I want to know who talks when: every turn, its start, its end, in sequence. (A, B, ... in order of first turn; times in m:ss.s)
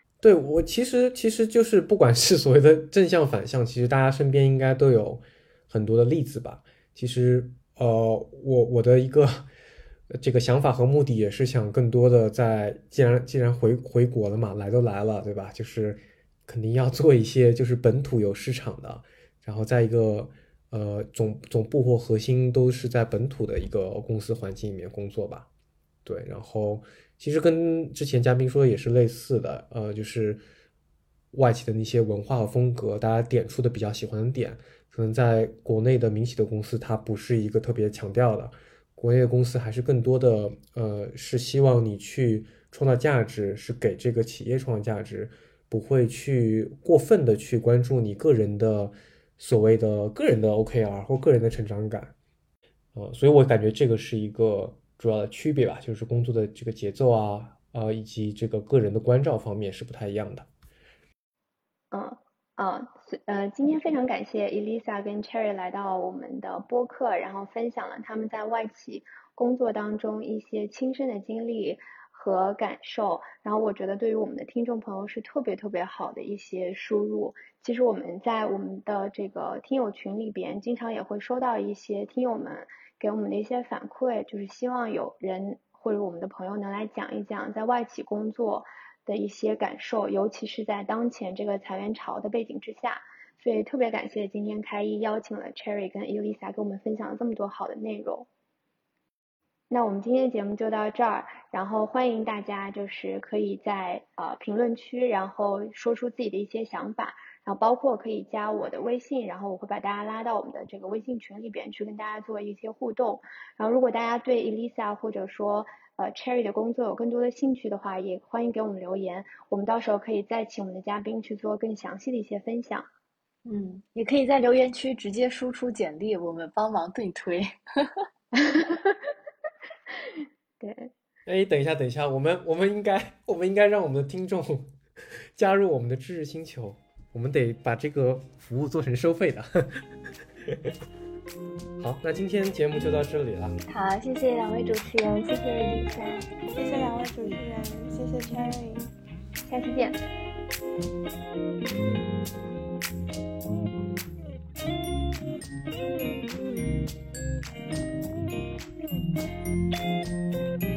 0:00.2-0:09.5 A
0:10.1-0:25.5 A
0:26.0-0:30.4 A
0:31.3-0:52.1 A
0:52.9-1:00.5 A
1:01.9-1:38.3 B
1:39.7-2:02.8 B
2:03.4-2:08.0 C
2:08.4-2:09.1 B
2:10.6-2:10.9 B
2:11.2-2:14.7 A
2:15.3-2:19.9 A
2:21.8-2:23.6 A
2:23.7-2:26.3 C
2:26.5-2:28.9 D
2:29.4-2:30.0 B